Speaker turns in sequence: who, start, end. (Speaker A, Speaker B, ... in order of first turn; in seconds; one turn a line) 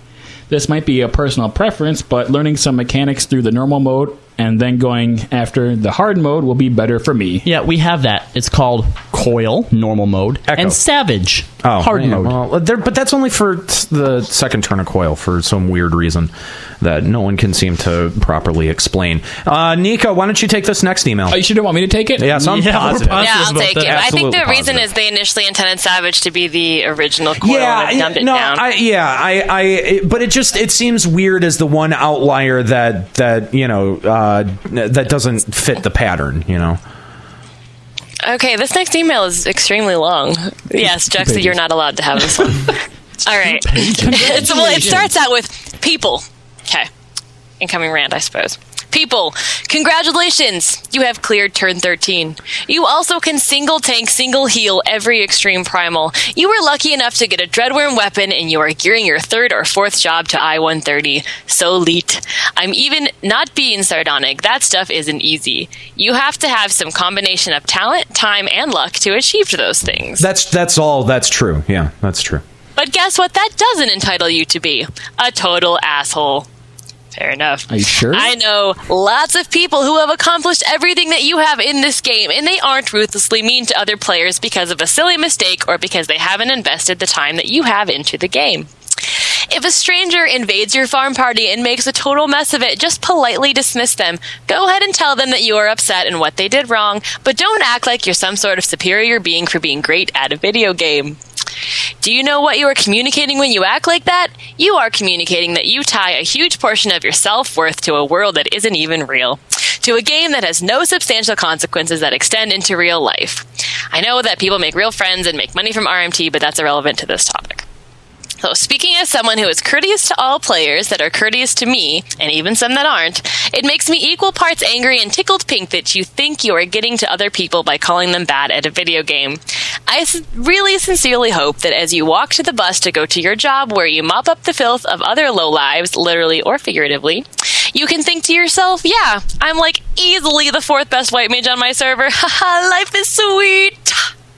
Speaker A: 0.5-7.5
Speaker B: 7.4-12.4
Speaker C: 10.5-10.8
Speaker C: 11.6-21.4
Speaker A: 21.3-23.1
Speaker C: 22.2-24.9
Speaker B: 22.4-24.4
Speaker D: 23.2-28.6
Speaker C: 27.4-36.8
Speaker D: 38.2-46.9
Speaker A: 41.2-41.5
Speaker B: 43.6-45.1
Speaker A: 43.7-45.1
Speaker D: 47.6-70.3
Speaker C: 70.2-72.4
Speaker D: 72.8-76.5
Speaker D: 77.1-88.7
Speaker A: 77.7-78.3
Speaker D: 89.5-101.2
Speaker D: 102.0-117.6
Speaker D: 118.4-144.1